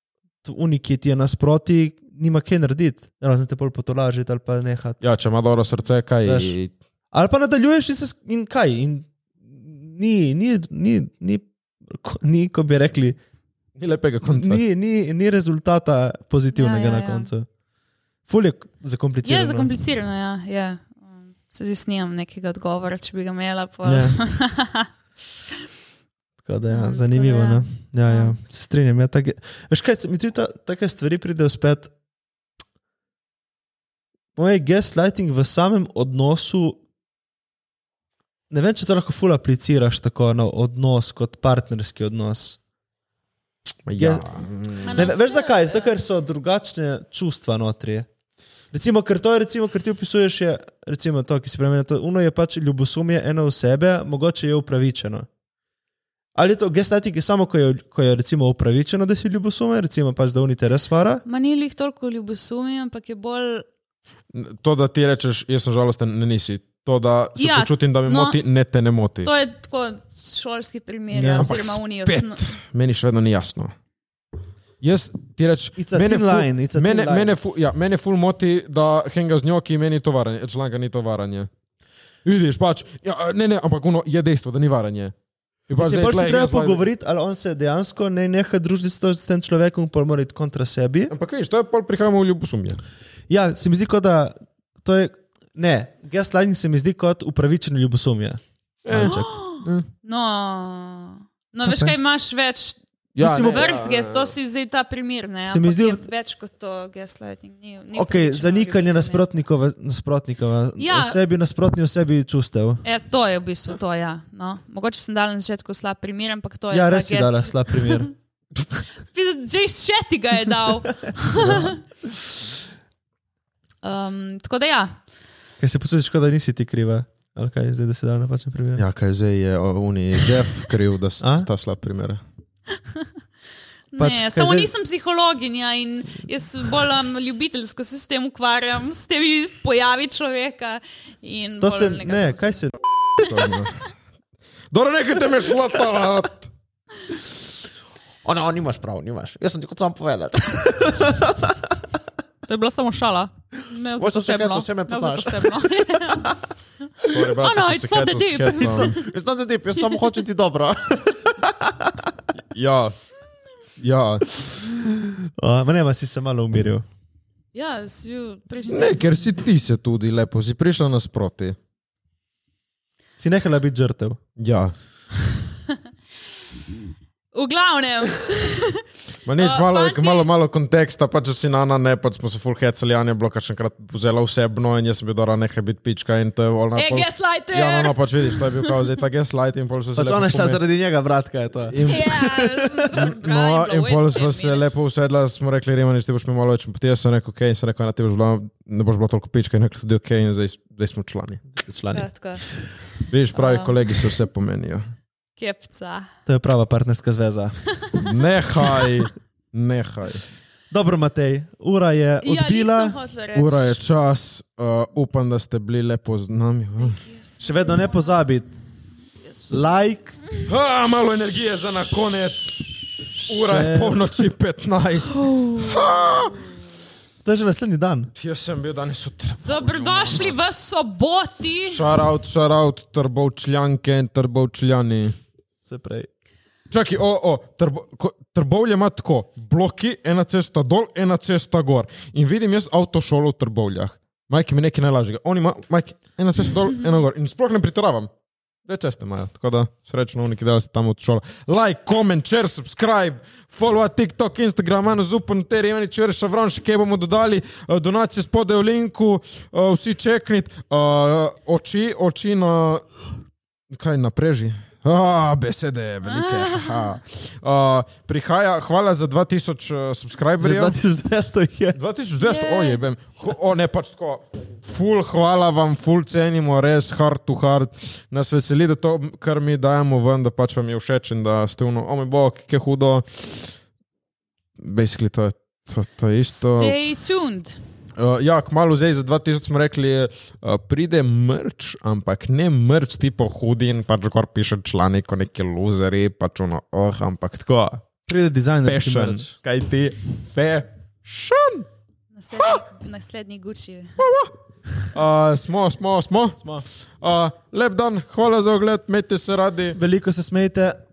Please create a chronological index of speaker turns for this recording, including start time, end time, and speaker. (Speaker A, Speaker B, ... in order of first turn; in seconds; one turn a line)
Speaker A: 0.4-5.0
Speaker B: 5.0-6.7
Speaker A: 6.2-6.5
Speaker A: 7.1-13.2
Speaker B: 13.8-14.6
Speaker A: 14.2-17.5
Speaker C: 16.5-17.3
Speaker A: 18.3-19.7
Speaker C: 19.2-24.9
Speaker A: 23.8-24.2
Speaker A: 26.4-31.9
Speaker C: 26.7-28.4
Speaker A: 34.3-36.8
Speaker A: 38.5-42.6
Speaker B: 43.9-45.1
Speaker A: 44.0-44.2
Speaker C: 44.8-45.9
Speaker A: 44.9-48.1
Speaker A: 48.7-55.3
Speaker A: 56.3-61.2
Speaker C: 61.2-63.6
Speaker B: 64.3-69.3
Speaker C: 67.4-68.4
Speaker C: 69.2-72.4
Speaker A: 71.1-71.5
Speaker B: 71.4-73.7
Speaker B: 74.8-81.5
Speaker A: 75.8-77.4
Speaker B: 82.2-85.1
Speaker B: 85.7-86.8
Speaker A: 85.8-91.1
Speaker B: 91.1-92.8
Speaker A: 93.3-99.3
Speaker B: 98.8-99.9
Speaker C: 99.0-109.2
Speaker A: 101.6-101.9
Speaker B: 103.2-104.3
Speaker A: 103.2-103.7
Speaker A: 105.5-106.0
Speaker A: 107.9-112.8
Speaker C: 110.8-111.2
Speaker C: 112.8-118.1
Speaker A: 116.7-118.1
Speaker C: 119.1-121.8
Speaker A: 121.1-121.7
Speaker C: 123.8-125.0
Speaker A: 125.6-128.8
Speaker B: 128.8-132.2
Speaker A: 131.2-131.5
Speaker C: 133.9-142.6
Speaker A: 134.0-134.7
Speaker A: 141.6-142.8
Speaker C: 143.2-143.4
Speaker B: 143.2-143.9
Speaker B: 144.7-146.5
Speaker D: 148.2-151.5
Speaker C: 152.5-156.3
Speaker D: 154.0-155.7
Speaker C: 156.9-159.1
Speaker B: 157.0-158.9
Speaker D: 158.8-161.9
Speaker C: 159.8-160.1
Speaker B: 162.4-163.0
Speaker B: 163.8-164.5
Speaker A: 164.8-166.8
Speaker C: 167.5-169.2
Speaker B: 168.7-171.6
Speaker A: 173.2-174.2
Speaker B: 174.4-174.7
Speaker C: 177.3-178.8
Speaker B: 179.2-190.6
Speaker C: 179.4-180.3
Speaker C: 186.7-188.8
Speaker A: 189.9-192.7
Speaker B: 191.7-192.2
Speaker C: 191.8-194.7
Speaker B: 192.9-201.4
Speaker A: 201.5-202.1
Speaker C: 201.9-202.5
Speaker B: 203.1-204.9
Speaker C: 203.3-204.0
Speaker C: 205.4-206.1
Speaker A: 206.2-207.6
Speaker B: 207.9-210.2
Speaker A: 210.7-213.0
Speaker C: 212.2-213.8
Speaker B: 213.3-217.0
Speaker C: 216.8-218.1
Speaker A: 217.4-218.6
Speaker A: 219.5-220.2
Speaker B: 220.4-222.7
Speaker B: 223.2-226.4
Speaker A: 223.3-224.1
Speaker C: 225.2-226.3
Speaker A: 227.2-228.1
Speaker B: 228.2-230.4
Speaker C: 229.4-231.8
Speaker B: 231.7-235.1
Speaker A: 235.7-236.1
Speaker B: 236.7-248.1
Speaker B: 248.7-262.9
Speaker B: 263.7-270.8
Speaker C: 266.0-267.0
Speaker A: 270.4-271.8
Speaker B: 271.7-283.5
Speaker C: 272.2-272.8
Speaker B: 284.6-286.8
Speaker C: 286.2-287.6
Speaker B: 288.0-297.8
Speaker A: 298.1-299.3
Speaker B: 298.6-301.6
Speaker C: 302.1-304.0
Speaker B: 304.0-304.3
Speaker B: 304.9-306.5
Speaker B: 307.0-309.8
Speaker A: 309.7-310.8